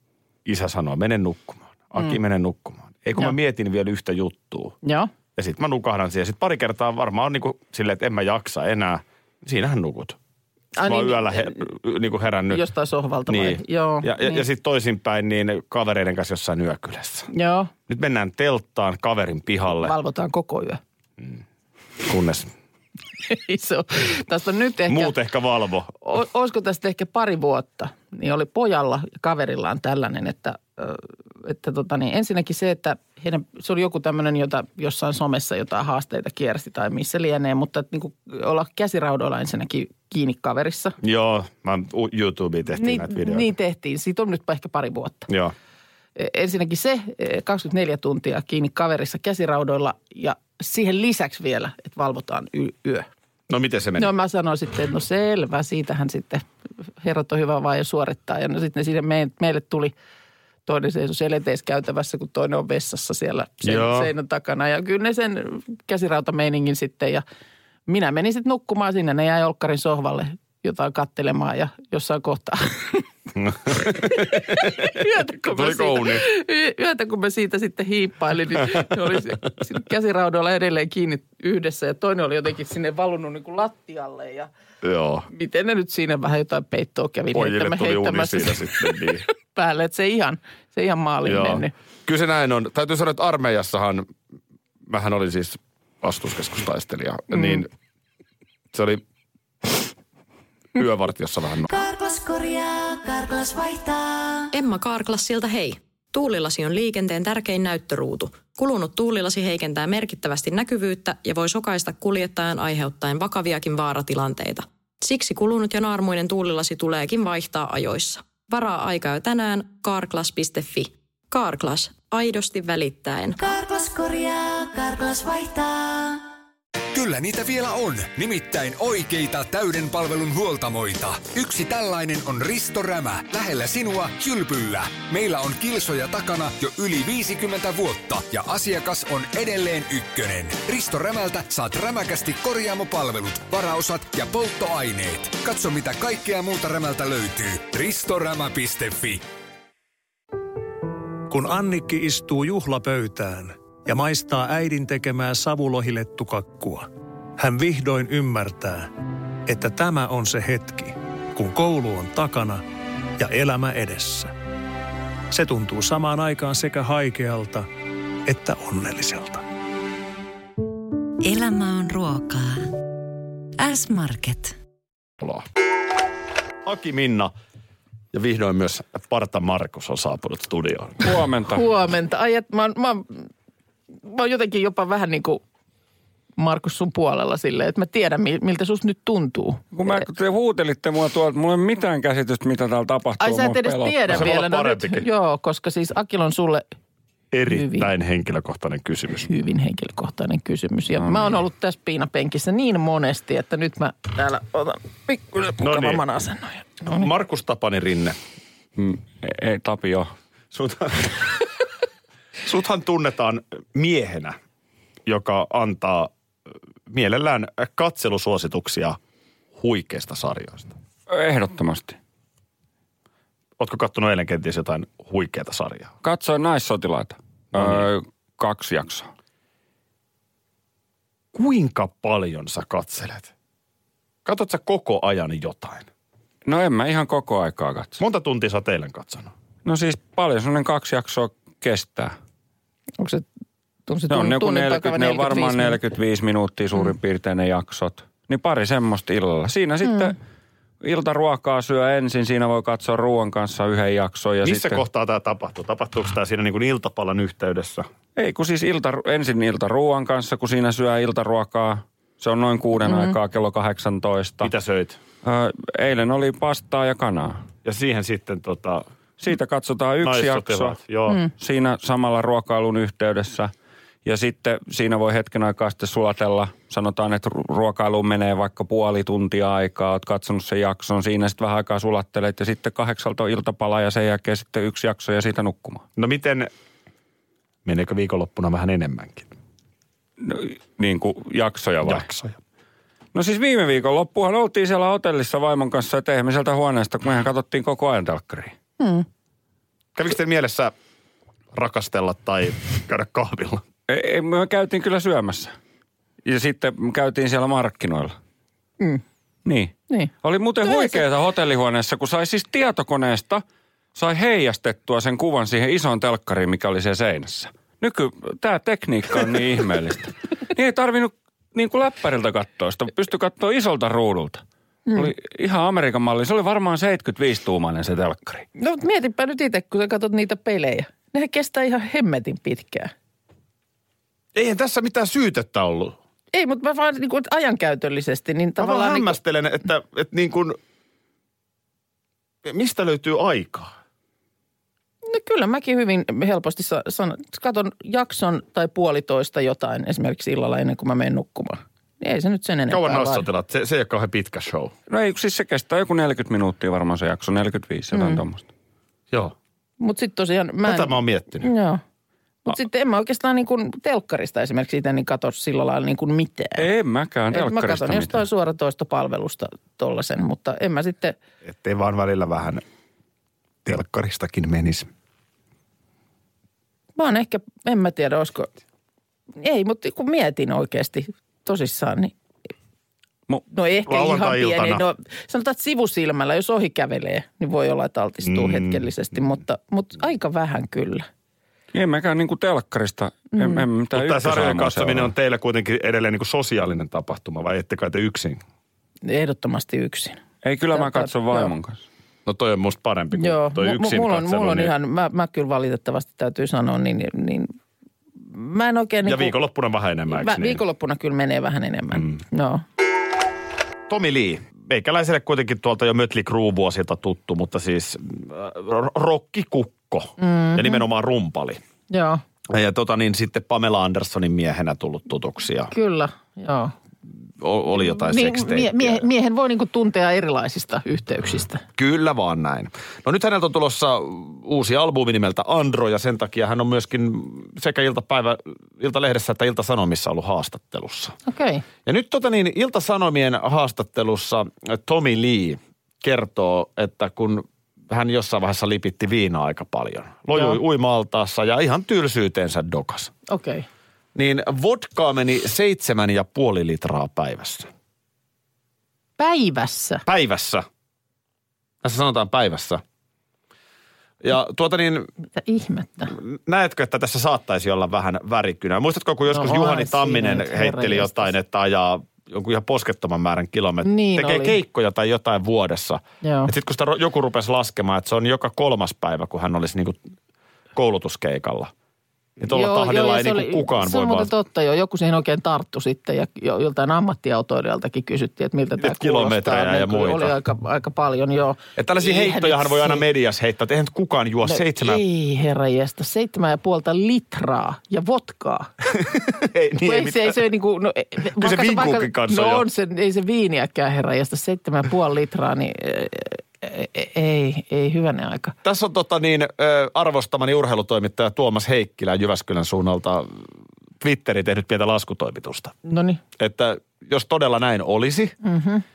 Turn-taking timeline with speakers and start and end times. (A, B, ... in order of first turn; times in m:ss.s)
0:00.4-0:04.8 A
0:04.8-0:05.1 B
0:05.4-0:10.2 A
0:10.8-0:11.6 B
0:10.8-0:12.6 A
0:12.5-0:14.4 B
0:13.3-0:17.3 A
0:17.3-0:17.7 B
0:17.9-0:19.9 A
0:19.8-0:20.8 B
0:22.0-0:22.5 A
0:23.2-0:25.1 B
0:24.9-0:26.0 A
0:26.0-0:41.0 B
0:41.0-0:43.5 A
0:42.7-0:45.3 B
0:45.3-0:45.5 A
0:46.2-0:53.1 B
0:53.5-0:54.1 A
0:54.0-0:56.4 B
0:57.0-0:59.9 B
1:00.7-1:07.2 B
1:03.6-1:04.1 A
1:07.9-1:13.0 B
1:13.4-1:16.2 A
1:14.0-1:24.5 B
1:24.8-1:25.3 A
1:25.3-1:31.7 B
1:27.3-1:29.2 A
1:31.3-1:34.1 A
1:34.9-1:37.7 A
1:38.7-1:39.0 A
1:40.8-1:41.7 A
1:41.7-1:44.5 C
1:44.5-2:03.4 D
2:03.4-2:06.3 C
2:06.9-2:29.2 E
2:31.3-2:38.9 F
2:39.5-2:42.6 F
2:43.2-2:44.3 F
2:45.3-2:47.7 F
2:48.3-2:49.4 F
2:51.2-2:52.7 C
2:53.6-2:54.5 C
2:55.2-2:55.5 A
2:56.6-2:57.3 A
2:58.1-3:01.1 A
3:01.0-3:01.6 G
3:01.5-3:03.3 B
3:04.0-3:05.4 B
3:06.4-3:09.6 B
3:09.7-3:14.2 G
3:13.2-3:16.6 B
3:14.1-3:15.1 A
3:17.3-3:19.3 A
3:17.5-3:17.9 B
3:19.3-3:27.1 B
3:21.0-3:21.3 G
3:25.6-3:26.0 A
3:26.8-3:28.2 A
3:28.8-3:30.1 G
3:30.5-3:31.2 A
3:32.4-3:34.4 A
3:35.1-3:36.1 A
3:36.9-3:39.0 A
3:39.6-3:40.7 A
3:41.1-3:42.0 G
3:43.6-3:45.9 A
3:46.0-3:49.1 G
3:47.5-3:47.9 A
3:51.3-3:53.3 A
3:54.2-3:55.9 A
3:56.4-3:58.0 G
3:58.0-3:59.3 A
3:59.6-4:02.1 G
4:03.0-4:03.2 B
4:03.9-4:05.8 B
4:04.1-4:10.2 G
4:10.8-4:14.8 G
4:14.4-4:17.9 A
4:18.2-4:24.5 G
4:22.9-4:23.2 B
4:24.4-4:25.0 A
4:25.2-4:27.5 G
4:27.6-4:28.9 A
4:29.2-4:30.8 G
4:30.0-4:31.2 A
4:31.3-4:33.5 G
4:34.0-4:45.8 G
4:46.0-4:46.5 A
4:47.6-4:49.3 A
4:50.2-4:52.1 G
4:51.8-4:52.4 A
4:53.1-4:58.5 G
4:58.8-4:59.1 B
5:00.0-5:00.7 A
5:01.5-5:03.6 A
5:03.9-5:05.5 G
5:06.2-5:08.2 G
5:09.4-5:13.4 G
5:10.6-5:11.0 B
5:14.0-5:24.4 G
5:24.9-5:28.5 G
5:28.6-5:32.9 B
5:34.3-5:36.0 A
5:36.3-5:39.2 B
5:38.6-5:40.6 A
5:42.4-5:43.7 A
5:45.0-5:53.3 B
5:52.7-5:54.7 A
5:54.9-5:58.5 G
5:57.9-5:58.2 B
5:59.8-6:01.8 B
6:00.6-6:01.5 A
6:02.5-6:06.6 B
6:06.6-6:08.2 G
6:07.3-6:11.2 B
6:11.4-6:12.6 A
6:13.6-6:14.9 A
6:17.0-6:18.5 B
6:19.4-6:22.1 B
6:23.5-6:31.1 B
6:23.9-6:24.8 A
6:28.2-6:28.9 A
6:31.7-6:35.1 G
6:33.3-6:33.6 B
6:33.9-6:38.4 A
6:39.0-6:40.2 B
6:40.4-6:41.9 G
6:40.7-6:41.5 B
6:42.2-6:44.7 A
6:43.2-6:47.5 B
6:48.3-6:49.4 B
6:49.0-6:50.6 A
6:50.1-6:52.6 B
6:53.9-7:01.6 A
7:00.2-7:00.8 B
7:01.9-7:02.2 B
7:02.5-7:05.7 A
7:05.7-7:06.7 B
7:07.4-7:09.1 A
7:08.0-7:11.6 B
7:11.8-7:21.2 A
7:21.3-7:21.6 B
7:21.8-7:33.1 A
7:30.3-7:30.6 B
7:33.3-7:33.6 B
7:34.2-7:37.7 A
7:39.2-7:40.0 B
7:40.1-7:40.6 A
7:41.8-7:42.8 A
7:44.2-7:45.1 A
7:45.4-7:46.1 B
7:46.1-8:00.0 A
7:49.3-7:51.4 B
7:53.8-7:54.6 B
7:56.2-7:56.5 B
8:00.8-8:01.7 A
8:02.4-8:04.3 A
8:02.5-8:13.0 B
8:08.8-8:10.4 A
8:11.8-8:15.0 A
8:14.5-8:18.7 B
8:18.9-8:20.4 A
8:19.8-8:28.6 B
8:21.4-8:22.7 A
8:28.6-8:33.4 A
8:34.0-8:35.8 A
8:35.8-8:36.2 B
8:36.4-8:38.3 A
8:38.4-8:38.8 B